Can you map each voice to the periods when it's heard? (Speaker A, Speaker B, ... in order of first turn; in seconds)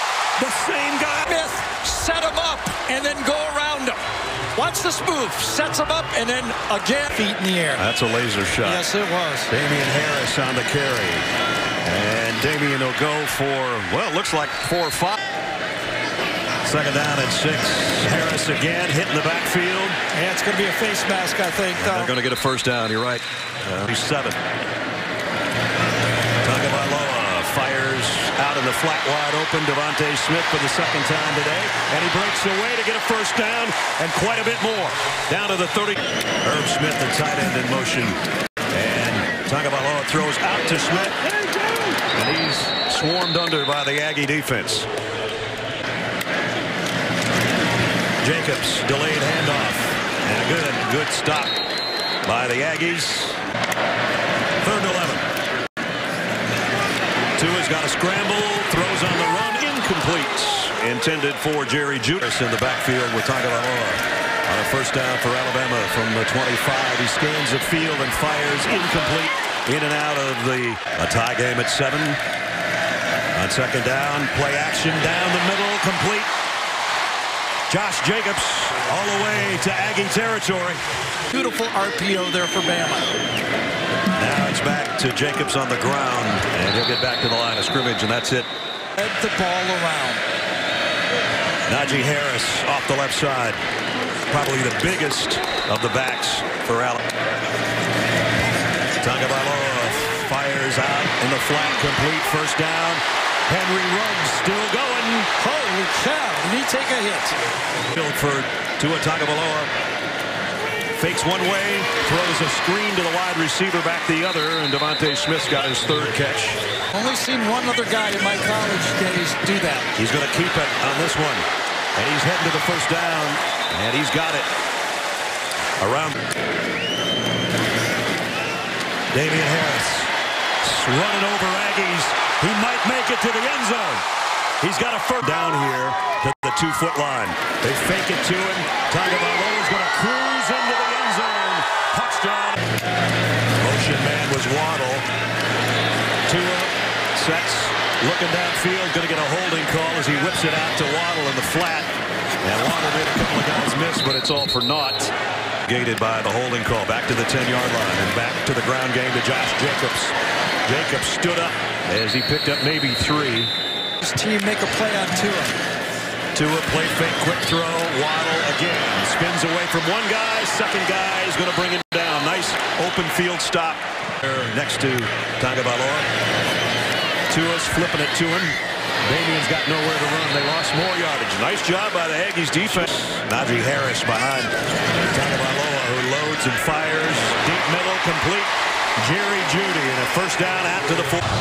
Speaker A: 0.4-1.2, 7.8-8.8, 9.5-11.3, 11.8-15.2, 16.6-20.0, 21.8-24.4, 26.4-41.2, 42.1-44.9, 48.2-51.6, 52.2-53.4, 54.6-55.2, 57.4-72.2, 73.3-76.3, 77.7-80.8, 84.1-88.5, 91.7-93.6, 94.3-97.0, 99.0-105.3, 107.9-109.7, 111.0-116.6, 120.0-124.5, 125.8-126.2, 129.1-134.0, 134.6-142.6, 143.6-145.1, 146.3-151.9, 152.4-155.1, 155.7-160.1, 160.7-163.5, 166.3-176.1, 177.3-184.5, 185.1-191.2
Speaker B: 1.2-4.0, 4.5-7.8, 8.6-9.5, 20.1-22.1, 81.3-83.2, 89.0-90.2, 105.4-107.3, 116.9-119.9, 164.0-165.6